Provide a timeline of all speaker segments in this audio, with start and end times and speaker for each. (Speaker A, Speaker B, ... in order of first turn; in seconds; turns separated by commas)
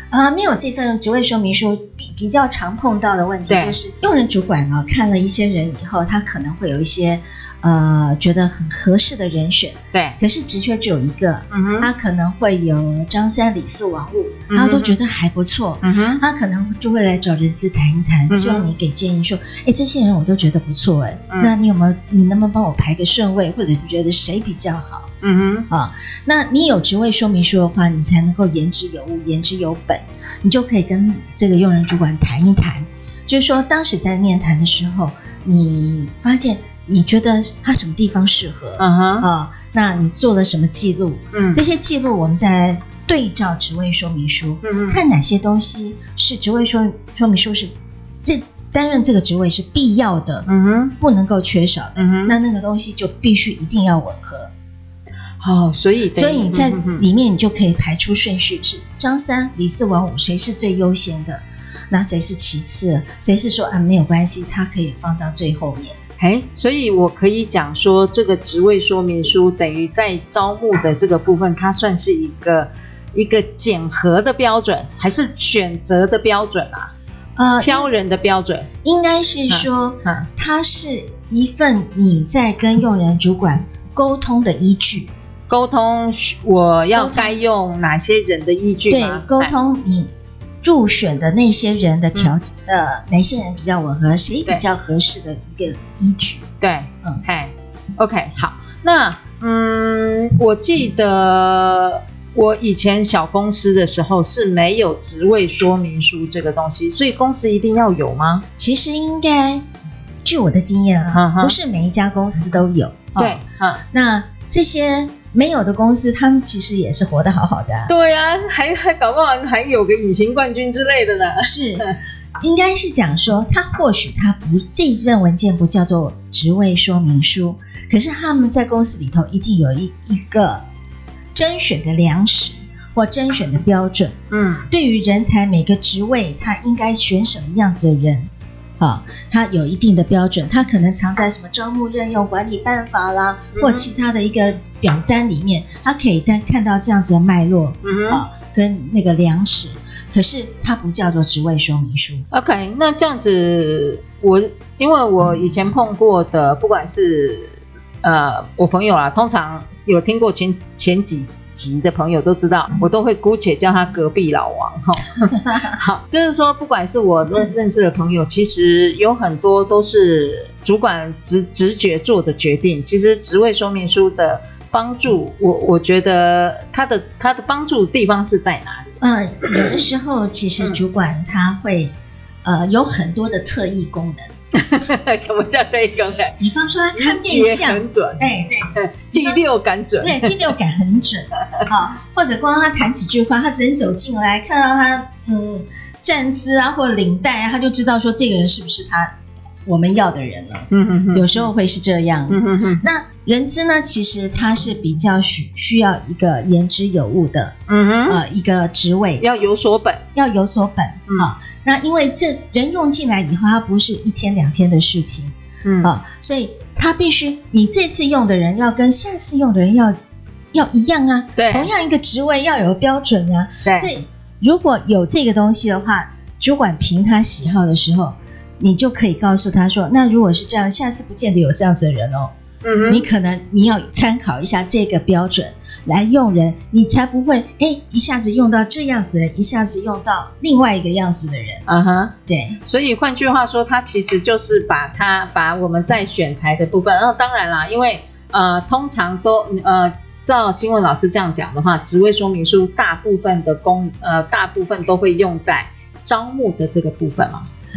Speaker A: 0.1-25.1, Speaker B: 3.5-3.8, Speaker B: 9.9-10.2, Speaker B: 11.5-11.9, Speaker B: 14.5-14.9, Speaker B: 15.8-16.2, Speaker B: 18.3-18.7, Speaker B: 25.2-25.7, Speaker A: 25.7-50.5, Speaker B: 38.8-39.3, Speaker B: 41.3-41.6, Speaker B: 44.6-45.0, Speaker B: 50.5-50.9, Speaker A: 51.0-54.5, Speaker B: 52.0-52.4, Speaker B: 55.4-57.0, Speaker A: 56.1-66.0, Speaker B: 66.2-76.9, Speaker A: 77.3-77.9, Speaker B: 77.6-78.7, Speaker A: 78.8-85.1, Speaker B: 79.5-80.3, Speaker B: 85.5-89.5, Speaker A: 86.9-87.4, Speaker A: 88.9-96.5, Speaker B: 96.6-108.5, Speaker A: 108.6-109.6, Speaker A: 110.2-117.9, Speaker B: 111.1-111.6, Speaker B: 113.2-113.8, Speaker B: 117.9-121.9, Speaker A: 121.4-121.9, Speaker A: 122.4-130.6, Speaker A: 131.3-134.2, Speaker B: 134.3-134.7, Speaker A: 134.7-152.2, Speaker B: 143.5-143.9, Speaker B: 147.8-148.2, Speaker B: 152.3-179.7, Speaker A: 179.0-184.3, Speaker B: 184.5-186.3, Speaker A: 186.4-189.4, Speaker B: 186.8-190.5, Speaker A: 190.0-199.1, Speaker A: 199.7-207.5, Speaker B: 200.7-201.5, Speaker B: 202.3-202.8, Speaker B: 207.7-208.2, Speaker A: 208.1-209.2, Speaker B: 209.2-210.0, Speaker A: 210.1-219.9, Speaker B: 215.6-215.9, Speaker A: 220.5-232.3, Speaker B: 221.4-221.7, Speaker B: 223.6-223.9, Speaker B: 232.6-233.1, Speaker A: 232.8-241.6, Speaker B: 241.7-257.5, Speaker A: 242.3-242.6